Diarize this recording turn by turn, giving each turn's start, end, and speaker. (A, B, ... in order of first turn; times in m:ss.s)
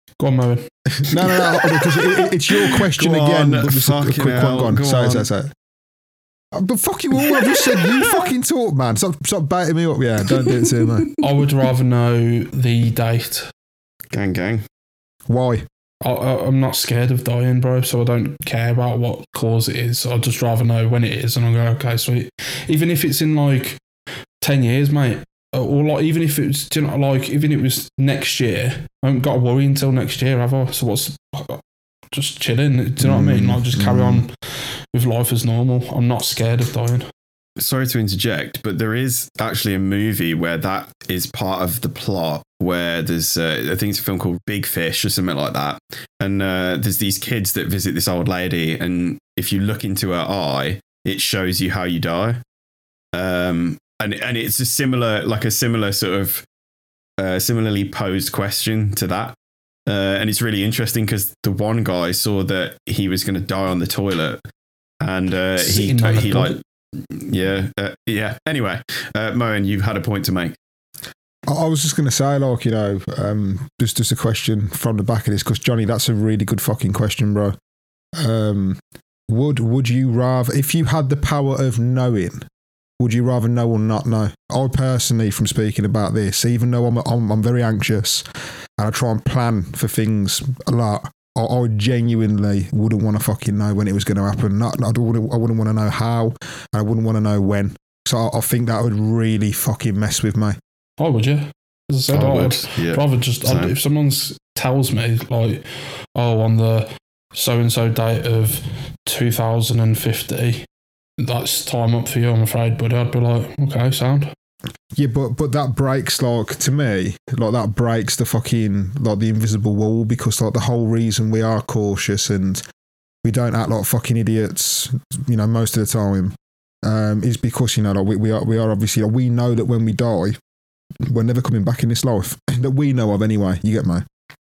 0:00.2-0:00.7 A
0:01.0-0:05.5 B
0:01.4-0:05.3 C
0:06.5-0:11.1 B
0:10.7-0:11.1 C
0:11.2-0:13.5 A
0:14.1-0:14.6 C
0:15.3-0:15.6 B
0:16.0-0:23.8 A
0:24.4-0:31.6 A
0:32.1-0:37.1 A
0:33.0-0:34.2 B
0:37.6-0:52.4 C
0:53.1-0:56.4 C
0:57.2-0:59.4 C
0:59.9-1:04.4 C
1:05.0-1:10.6 C
1:05.6-1:06.6 A
1:11.5-1:17.6 B
1:18.2-1:22.4 B
1:23.0-1:40.6 B
1:41.0-1:50.7 A
1:42.1-1:43.7 C
1:51.2-1:54.3 A
1:55.0-2:02.6 B
2:03.2-2:10.4 B
2:11.0-2:14.0 B